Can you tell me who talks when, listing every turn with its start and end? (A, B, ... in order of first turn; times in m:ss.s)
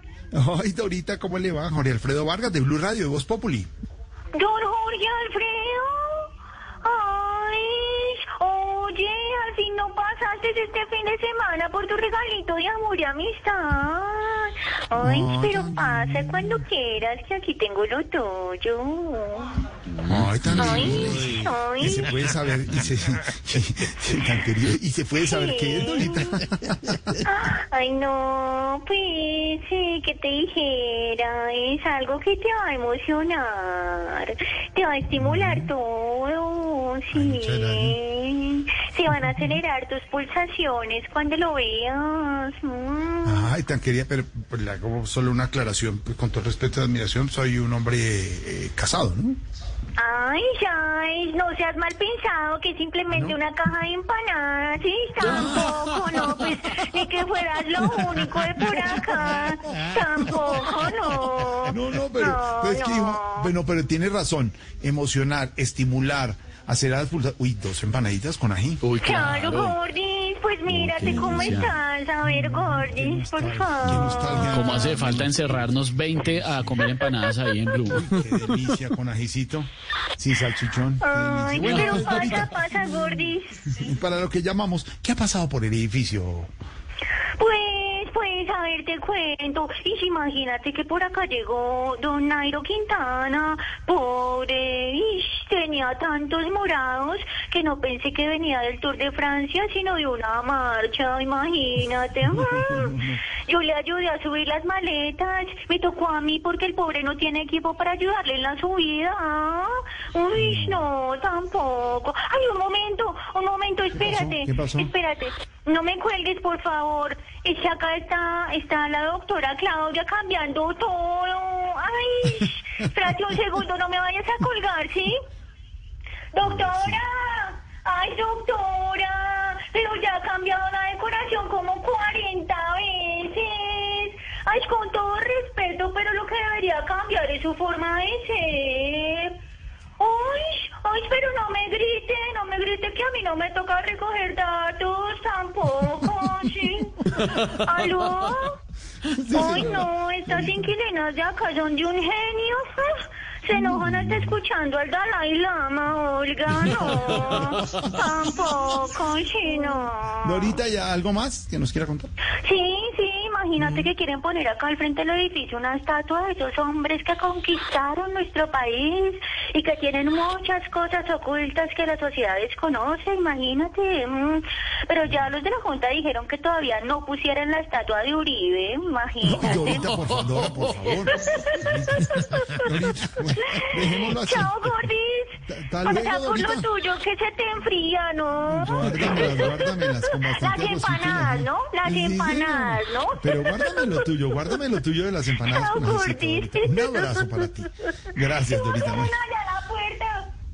0:00.3-0:03.7 A
0:04.4-0:06.3 B
0:06.8-0:19.5 B
0:14.9-0:16.6 A
0:20.1-0:27.0 A
0:20.6-0:22.1 B
0:25.2-0:26.3 B
0:27.2-0:43.5 B
0:35.2-0:35.7 A
0:37.1-0:38.0 A
0:39.1-0:39.4 A
0:43.2-0:49.4 A
0:50.0-1:03.5 B
0:53.1-0:53.4 A
0:55.2-0:55.6 A
1:01.6-1:08.8 A
1:08.8-1:09.8 C
1:09.0-1:14.8 B
1:10.7-1:11.8 C
1:10.9-1:11.6 A
1:12.2-1:16.9 A
1:13.9-1:18.2 C
1:16.8-1:17.1 B
1:17.9-1:26.5 A
1:21.0-1:23.7 B
1:21.6-1:22.0 C
1:27.4-2:05.2 B
1:42.3-1:43.2 A
1:50.4-1:50.8 A
1:53.9-1:54.9 A
2:06.3-2:19.4 B
2:06.4-2:07.0 A
2:20.0-2:28.6 B
2:29.1-2:30.7 A
2:29.3-2:40.6 B
2:33.5-2:34.4 A
2:36.6-2:37.9 A
2:40.2-2:42.1 A
2:42.4-2:59.9 B
2:43.6-2:43.9 A
2:59.2-3:04.9 A
2:59.7-3:00.8 C
3:01.1-3:02.7 B
3:03.3-3:14.6 B
3:05.4-3:06.7 A
3:08.4-3:19.2 A
3:15.4-3:20.3 B